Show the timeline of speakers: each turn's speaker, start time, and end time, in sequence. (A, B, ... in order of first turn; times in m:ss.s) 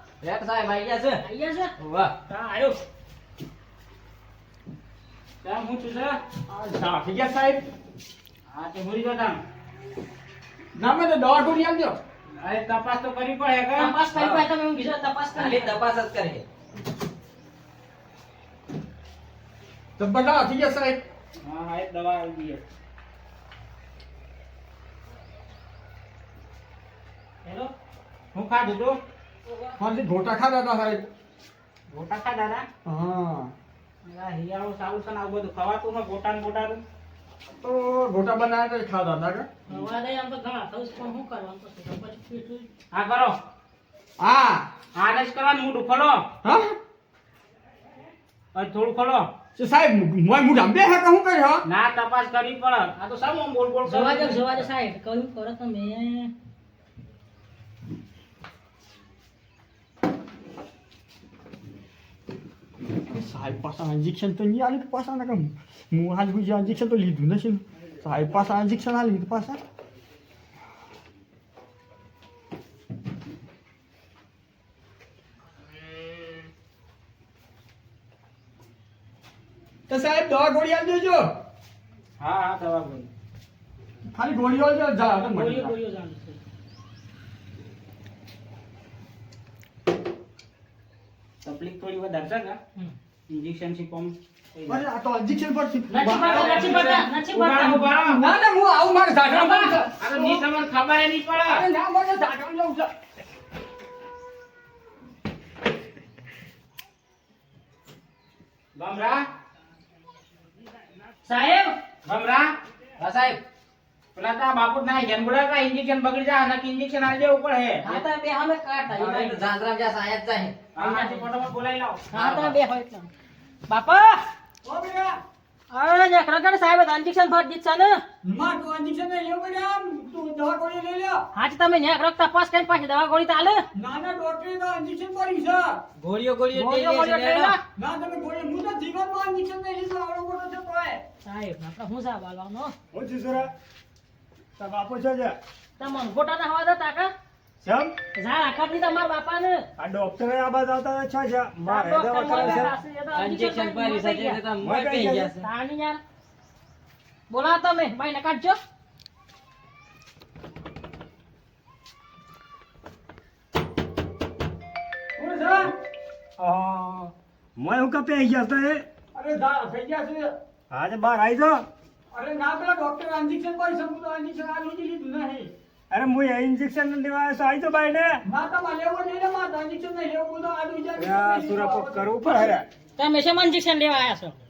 0:00.2-0:01.2 A
0:01.2-0:01.7 B
0:01.8-0:02.1 A
0:02.3-0:02.8 B
0:05.4-0:06.2 C
0:06.5-0:07.6 D
0:08.5-0:09.4 C
0:10.8-0:12.0 D
0:12.4-0:13.9 C
0:13.8-0:15.8 B
0:14.1-0:14.5 A
0:15.4-0:16.4 A
0:20.0-0:21.0 D
0:21.4-0:22.6 C
0:27.4-0:27.7 B
0:28.3-0:29.0 C
0:29.4-0:29.8 B
0:29.8-0:31.1 D
0:31.9-0:32.7 C
0:32.8-0:33.5 D
0:34.1-0:36.8 C
0:37.6-0:39.5 D
0:39.7-0:42.7 B
0:42.9-0:43.4 C
0:44.2-0:44.7 D
0:44.9-0:46.3 C
0:46.4-0:46.8 D
0:48.5-0:49.3 C
0:49.6-0:51.6 D
0:51.7-0:54.6 C
0:53.8-0:56.3 B
1:03.1-1:09.6 D
1:19.9-1:21.4 D
1:22.2-1:23.1 C
1:24.1-1:25.8 D
1:25.2-1:26.4 B
1:31.4-1:32.6 C
1:33.3-1:34.9 C
1:34.7-1:37.0 D
1:35.9-1:37.9 B
1:36.2-1:38.2 C
1:38.0-1:40.5 D
1:39.3-1:39.8 B
1:39.9-1:41.7 C
1:41.3-1:42.9 D
1:48.8-1:49.2 C
1:51.2-1:51.8 B
1:52.0-1:52.5 C
1:53.0-1:53.4 A
1:54.2-1:58.0 C
1:57.8-1:59.4 B
1:58.9-2:00.6 A
2:00.8-2:02.1 C
2:00.8-2:01.3 B
2:02.1-2:03.1 B
2:02.1-2:02.6 A
2:03.7-2:04.2 B
2:04.6-2:05.2 D
2:05.7-2:08.0 B
2:08.2-2:11.3 D
2:11.3-2:13.6 B
2:13.8-2:15.8 D
2:16.0-2:17.5 A
2:16.5-2:17.6 B
2:17.8-2:21.0 D
2:21.2-2:22.8 B
2:22.9-2:23.5 E
2:24.6-2:25.4 E
2:25.8-2:27.1 B
2:27.6-2:28.0 E
2:28.2-2:29.6 B
2:29.8-2:32.7 E
2:31.6-2:34.4 B
2:32.2-2:35.5 A
2:34.6-2:35.4 E
2:35.4-2:36.0 B
2:37.3-2:38.6 B
2:45.2-2:45.7 D
2:46.4-2:47.1 D
2:47.6-2:48.8 E
2:49.1-2:50.4 D
2:50.7-2:51.6 E
2:52.1-2:55.5 D
2:55.9-2:58.2 E
2:58.2-3:02.5 D
3:01.0-3:02.7 E
3:03.0-3:04.4 B